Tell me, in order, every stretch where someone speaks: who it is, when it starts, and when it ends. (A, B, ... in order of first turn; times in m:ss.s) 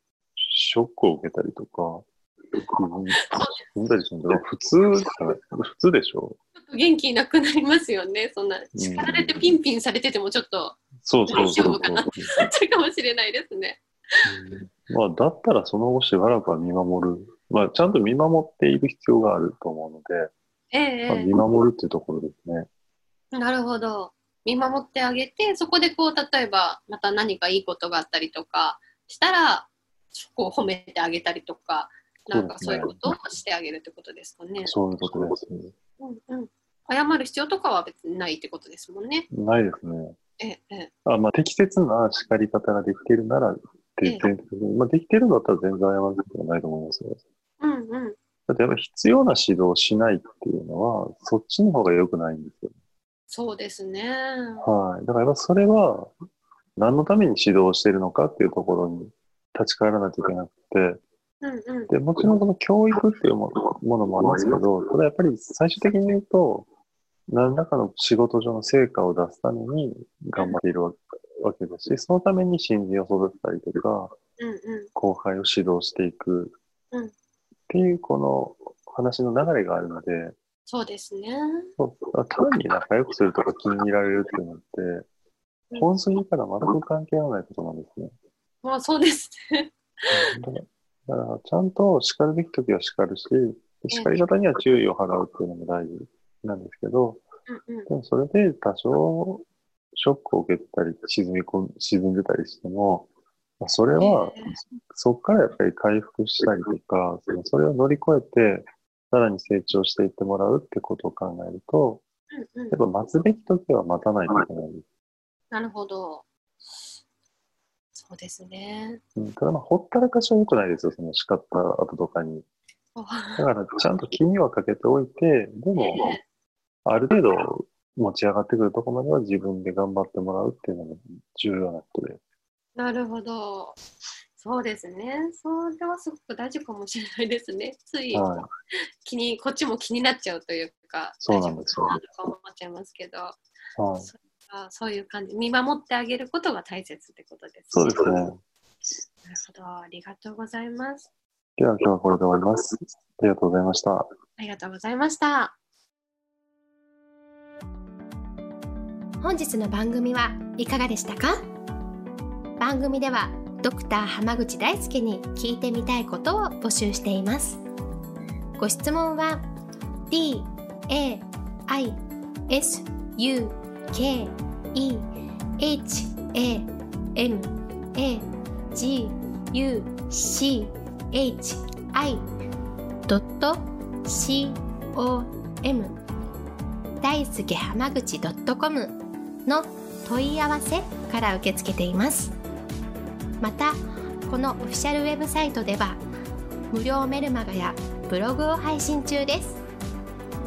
0:00.4-0:06.4 A
0:06.6-0:14.3 B
0:08.8-0:09.5 A
0:11.0-0:12.4 A
0:14.2-0:20.3 A
0:20.7-0:21.4 B
0:21.1-0:22.7 A
0:23.4-0:34.8 B
0:32.3-0:33.2 A
0:34.6-0:35.8 A
0:36.0-0:39.3 B
0:39.3-0:40.2 A
0:40.4-0:40.9 B
0:41.0-0:47.2 A
0:44.0-0:44.3 B
0:47.6-0:48.2 B
0:48.5-0:52.7 A
0:53.3-0:54.7 B
0:54.6-0:56.1 A
0:56.8-1:01.0 A
1:01.4-1:01.9 B
1:01.9-1:06.7 A
1:07.3-1:14.2 A
1:14.4-1:14.9 B
1:15.0-1:16.6 A
1:17.7-1:20.4 A
1:20.7-1:21.7 B
1:21.8-1:25.1 A
1:25.7-1:28.1 A
1:28.6-1:30.3 B
1:30.1-1:37.2 A
1:33.9-1:34.2 B
1:37.5-1:37.9 B
1:37.9-1:43.1 A
1:43.6-1:52.0 A
1:44.0-1:44.5 B
1:52.4-1:52.8 B
1:52.7-1:54.8 A
1:55.5-1:56.9 B
1:58.0-1:59.0 B
1:59.2-2:02.5 A
2:03.0-2:03.4 B
2:03.4-2:06.2 A
2:05.8-2:06.2 B
2:06.9-2:12.2 A
2:12.8-2:13.8 B
2:14.4-2:18.4 B
2:18.1-2:18.5 A
2:19.0-2:23.4 B
2:21.2-2:22.0 A
2:23.8-2:24.1 A
2:24.0-2:28.1 B
2:27.7-2:28.4 A
2:29.2-2:31.1 B
2:31.6-2:34.1 A
2:34.4-2:35.6 B
2:39.2-2:41.4 C
2:42.6-2:47.6 C
2:48.6-2:49.4 C
2:50.1-2:55.1 C
2:55.6-3:02.2 C
3:03.1-3:06.0 C
3:07.0-3:12.4 C
3:13.4-3:16.0 C
3:16.7-3:19.6 C